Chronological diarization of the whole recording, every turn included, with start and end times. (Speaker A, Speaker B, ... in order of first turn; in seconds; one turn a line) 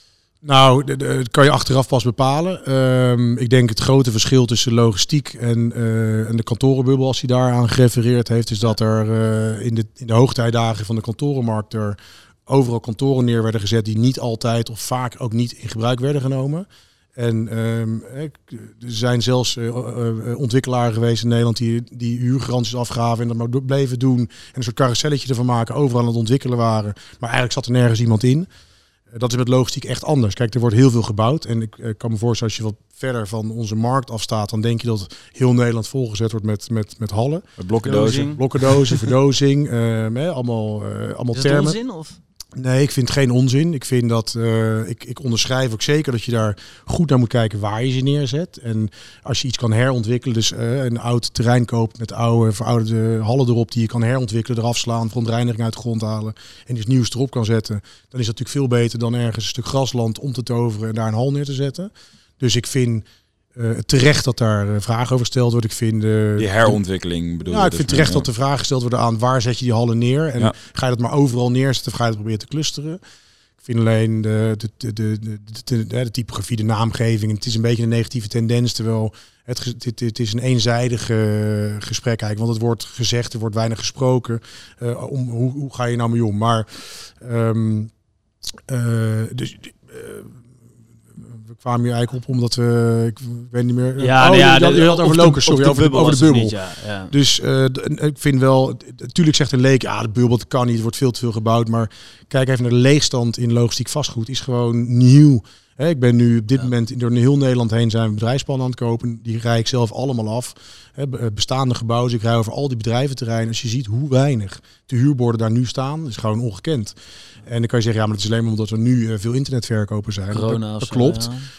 Speaker A: 0.4-28.5
Speaker A: 29.1-41.8
Speaker B: 37.6-38.4
Speaker C: 37.8-39.0
Speaker C: 41.3-42.2
Speaker A: 42.6-66.8
Speaker B: 66.4-68.3
Speaker A: 67.5-73.0
Speaker A: 73.6-87.9
Speaker A: 88.7-90.4
Speaker A: 91.2-96.6
Speaker C: 94.0-97.1
Speaker A: 97.1-121.3
Speaker C: 120.3-121.5